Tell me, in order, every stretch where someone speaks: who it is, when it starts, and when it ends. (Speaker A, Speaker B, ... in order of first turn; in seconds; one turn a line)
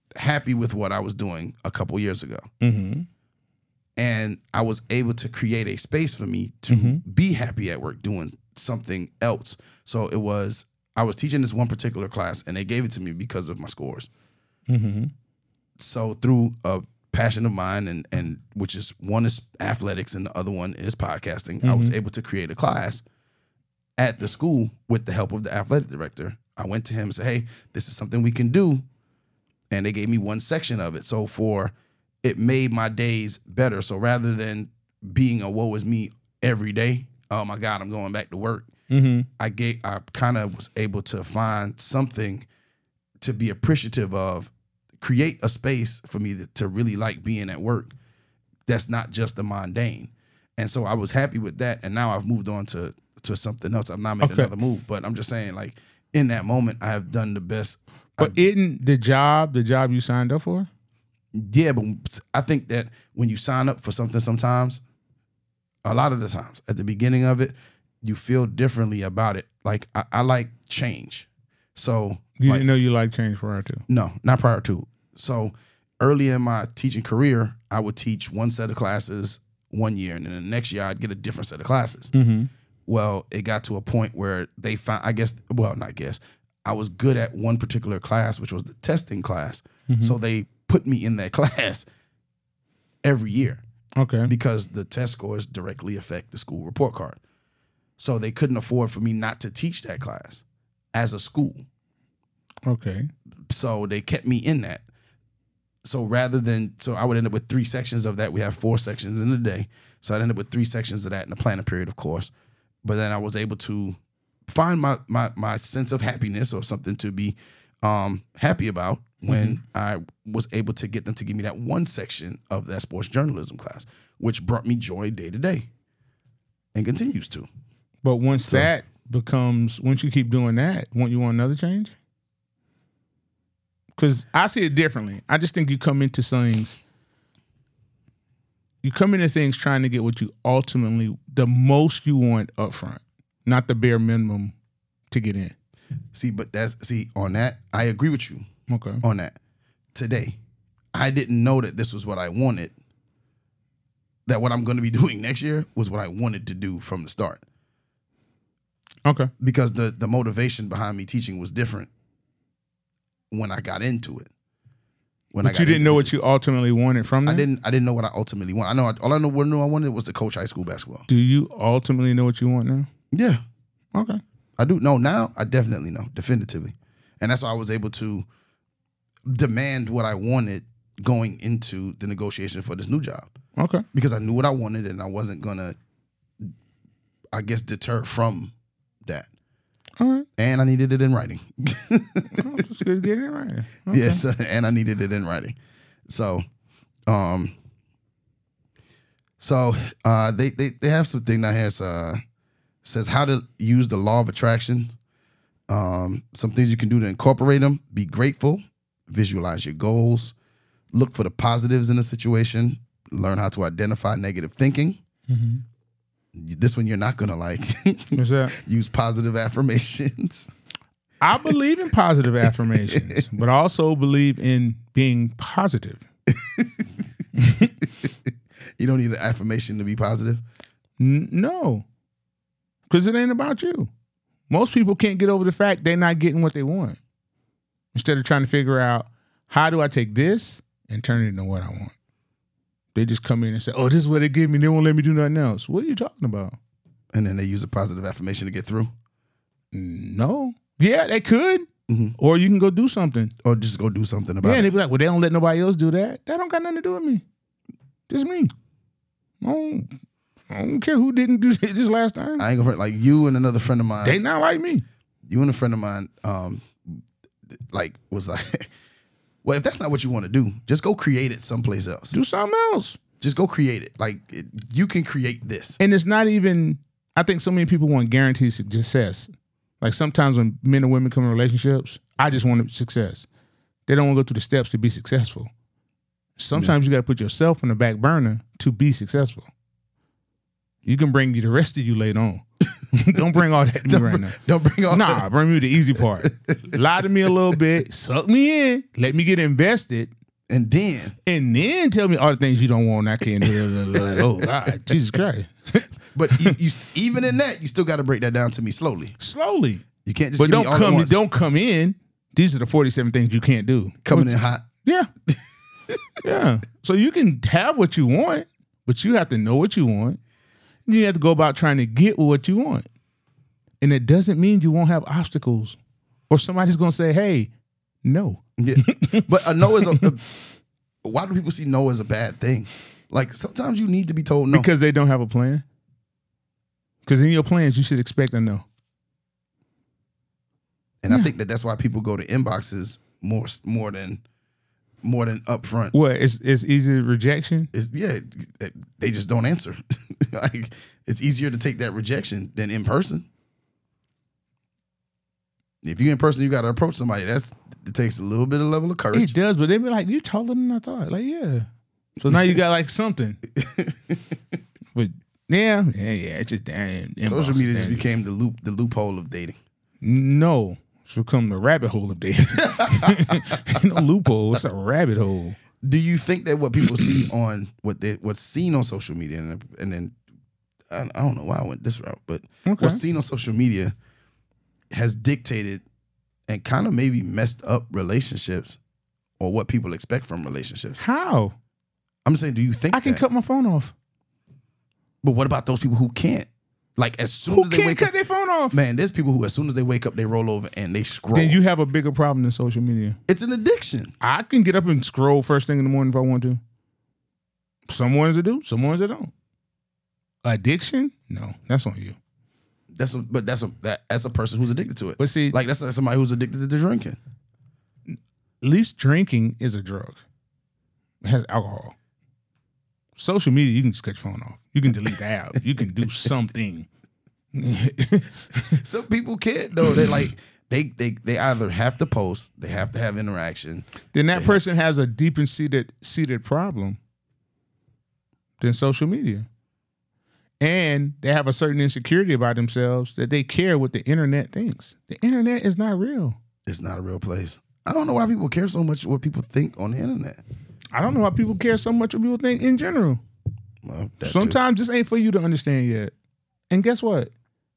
Speaker A: 0.1-2.5
Speaker B: 2.6-3.0
Speaker A: 4.0-14.1
Speaker B: 6.7-7.0
Speaker B: 14.7-15.1
Speaker A: 15.8-23.0
Speaker B: 21.6-21.9
Speaker A: 24.0-28.8
Speaker A: 29.7-38.7
Speaker B: 38.9-39.3
Speaker A: 39.4-42.5
Speaker A: 43.2-47.9
Speaker A: 48.6-58.4
Speaker B: 54.2-54.5
Speaker B: 58.2-60.7
Speaker A: 61.3-64.8
Speaker A: 65.8-72.7
Speaker B: 72.4-73.8
Speaker A: 73.9-82.1
Speaker B: 82.1-82.5
Speaker A: 82.9-91.8
Speaker B: 89.9-90.1
Speaker A: 93.0-93.6
Speaker B: 94.0-94.3
Speaker A: 94.3-97.2
Speaker A: 98.0-101.7
Speaker B: 102.7-103.1
Speaker A: 103.5-104.8
Speaker A: 105.8-112.3
Speaker A: 112.8-125.7
Speaker B: 119.3-119.6
Speaker A: 126.7-127.5
Speaker B: 128.0-131.9
Speaker B: 134.0-136.8
Speaker B: 138.8-144.5
Speaker B: 145.1-145.5
Speaker A: 146.1-148.4
Speaker B: 148.7-149.0
Speaker A: 149.0-149.3
Speaker A: 149.9-150.4
Speaker A: 150.9-152.7
Speaker A: 154.3-157.4
Speaker B: 159.1-159.3
Speaker A: 159.4-161.9
Speaker A: 163.3-164.3
Speaker A: 165.3-166.1
Speaker B: 165.4-167.4
Speaker A: 167.2-171.1
Speaker B: 171.1-172.9
Speaker A: 173.1-173.4
Speaker B: 173.9-174.2
Speaker A: 174.6-178.2
Speaker A: 179.3-183.3
Speaker B: 183.6-183.8
Speaker A: 183.9-185.8
Speaker A: 187.3-189.3
Speaker B: 190.0-190.3
Speaker A: 190.4-192.6
Speaker B: 192.3-194.2
Speaker A: 193.9-195.6
Speaker A: 196.1-196.4
Speaker A: 197.1-197.5
Speaker A: 199.4-202.2
Speaker A: 202.8-204.9
Speaker A: 205.7-210.3
Speaker A: 210.9-215.0
Speaker B: 215.3-215.6
Speaker A: 216.3-220.5
Speaker B: 218.1-218.6
Speaker B: 221.2-226.0
Speaker A: 222.9-223.2
Speaker A: 226.3-226.9
Speaker B: 227.4-227.7
Speaker A: 227.8-228.1
Speaker A: 228.8-230.4
Speaker B: 231.0-231.8
Speaker B: 232.9-233.9
Speaker B: 234.5-237.0
Speaker B: 237.9-241.9
Speaker B: 242.9-246.6
Speaker A: 247.1-248.9
Speaker B: 249.7-251.7
Speaker A: 251.9-252.2
Speaker B: 252.2-253.3
Speaker A: 253.4-254.7
Speaker B: 254.4-257.2
Speaker B: 258.1-258.5
Speaker B: 259.4-259.9
Speaker B: 260.5-262.4
Speaker A: 262.4-264.2
Speaker B: 264.0-264.8
Speaker A: 265.3-267.0
Speaker A: 267.7-268.7
Speaker A: 269.4-272.1
Speaker B: 272.1-273.0
Speaker A: 273.2-275.8
Speaker B: 275.8-283.3
Speaker B: 283.9-285.5
Speaker B: 286.4-289.5
Speaker B: 290.8-294.4
Speaker A: 293.9-295.2
Speaker B: 294.9-300.1
Speaker A: 295.9-296.8
Speaker A: 300.5-301.1
Speaker B: 301.2-306.6
Speaker A: 303.4-304.9
Speaker A: 306.1-309.1
Speaker B: 309.2-309.9
Speaker A: 310.0-311.2
Speaker B: 310.4-315.1
Speaker A: 314.0-314.7
Speaker B: 316.2-320.2
Speaker B: 320.9-322.9
Speaker B: 323.8-325.8
Speaker B: 326.3-327.5
Speaker B: 328.0-330.1
Speaker A: 328.6-330.2
Speaker A: 331.0-334.7
Speaker B: 334.5-335.6
Speaker B: 337.1-338.6
Speaker A: 341.0-344.2
Speaker A: 345.0-345.9
Speaker B: 345.9-347.7
Speaker A: 347.7-353.3
Speaker A: 355.8-359.3
Speaker B: 359.1-363.4
Speaker A: 363.6-364.2
Speaker B: 364.9-368.0
Speaker A: 367.2-369.6
Speaker B: 370.0-375.6
Speaker A: 372.6-373.8
Speaker A: 375.8-380.1
Speaker A: 380.9-383.9
Speaker B: 382.6-383.0
Speaker A: 384.9-385.8
Speaker A: 386.5-388.8
Speaker A: 389.4-391.0
Speaker B: 391.0-391.6
Speaker A: 392.2-393.2
Speaker B: 392.9-393.9
Speaker A: 395.2-398.1
Speaker B: 397.5-398.8
Speaker A: 398.7-401.6
Speaker B: 401.3-403.2
Speaker A: 403.3-404.1
Speaker B: 404.2-406.6
Speaker B: 407.9-409.3
Speaker B: 410.4-412.2
Speaker A: 412.9-417.2
Speaker B: 415.2-415.6
Speaker B: 418.6-420.2
Speaker B: 421.2-421.9
Speaker B: 423.1-426.9
Speaker B: 427.5-428.8
Speaker A: 428.8-434.6
Speaker B: 434.1-437.0
Speaker B: 438.6-439.5
Speaker B: 440.6-446.4
Speaker A: 446.6-450.4
Speaker B: 450.9-453.2
Speaker A: 453.8-454.6
Speaker B: 454.2-456.1
Speaker B: 456.7-457.3